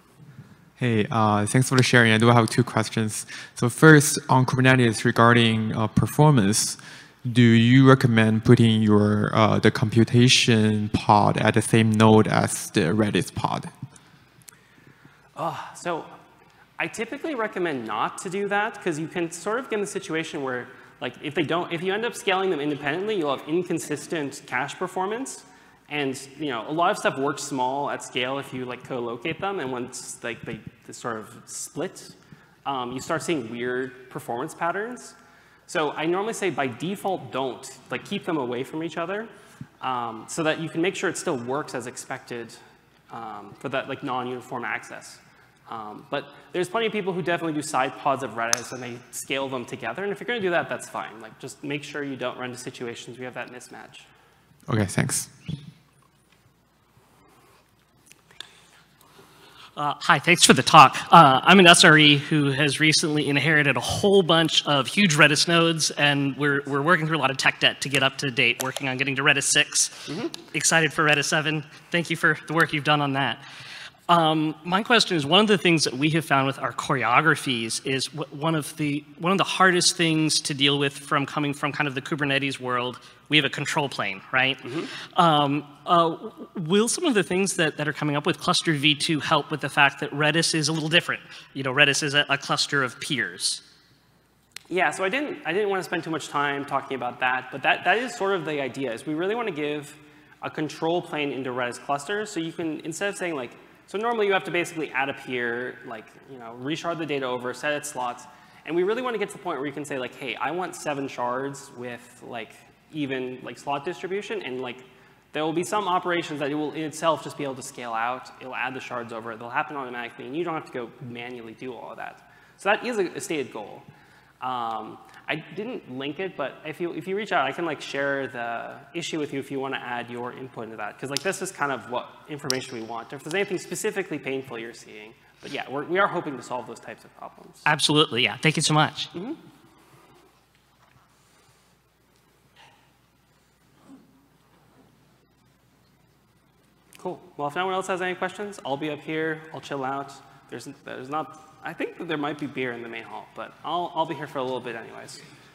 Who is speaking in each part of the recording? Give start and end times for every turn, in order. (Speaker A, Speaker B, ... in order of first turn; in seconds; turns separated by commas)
Speaker A: 0.8-13.7, Speaker B: 15.4-16.1, Speaker B: 16.8-39.3, Speaker B: 39.8-42.6, Speaker B: 43.1-54.1, Speaker A: 54.7-55.4, Speaker C: 59.8-73.4, Speaker C: 74.1-93.6, Speaker B: 94.7-123.9, Speaker B: 124.4-137.7, Speaker C: 137.7-139.1, Speaker B: 147.0-155.2